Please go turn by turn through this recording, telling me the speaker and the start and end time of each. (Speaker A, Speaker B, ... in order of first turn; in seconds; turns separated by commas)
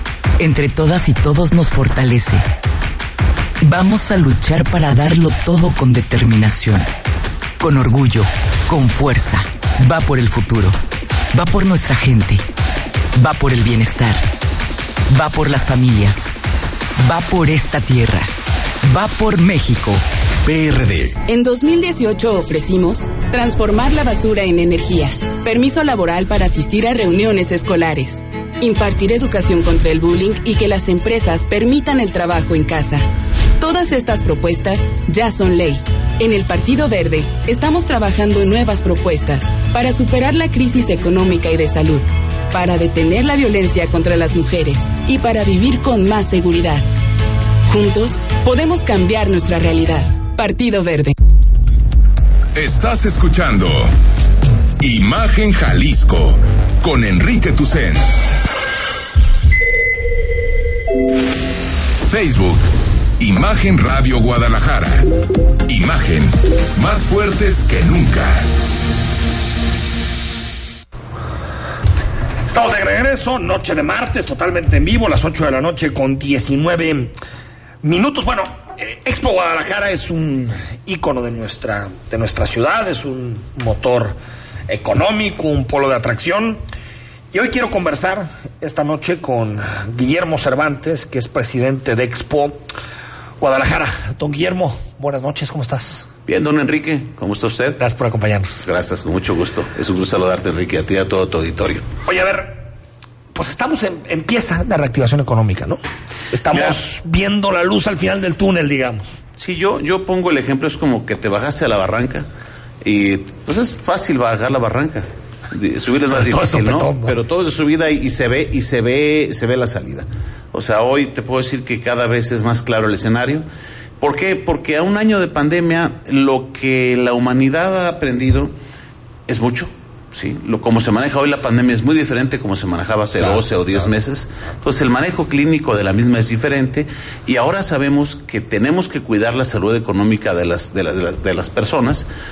Speaker A: 0.4-2.4, Speaker A: 3.6-6.9, Speaker A: 7.6-10.8, Speaker A: 11.3-12.4, Speaker A: 13.2-14.2, Speaker A: 15.1-16.2, Speaker A: 17.0-18.3, Speaker A: 18.8-20.0, Speaker B: 21.3-33.0, Speaker B: 33.6-46.8, Speaker B: 47.6-51.1, Speaker C: 52.5-53.9, Speaker C: 54.8-58.1, Speaker C: 62.0-62.6, Speaker C: 63.2-65.0, Speaker C: 65.7-68.4, Speaker D: 72.5-77.1, Speaker D: 77.8-84.2, Speaker D: 84.7-86.6, Speaker D: 87.3-92.6, Speaker D: 93.4-96.1, Speaker E: 96.3-97.8, Speaker D: 97.8-98.6, Speaker E: 98.6-101.9, Speaker D: 102.0-102.7, Speaker D: 103.3-109.2, Speaker E: 106.5-106.8, Speaker E: 109.4-112.3, Speaker E: 112.8-123.5, Speaker D: 116.1-117.2, Speaker E: 124.0-128.5, Speaker E: 129.3-142.1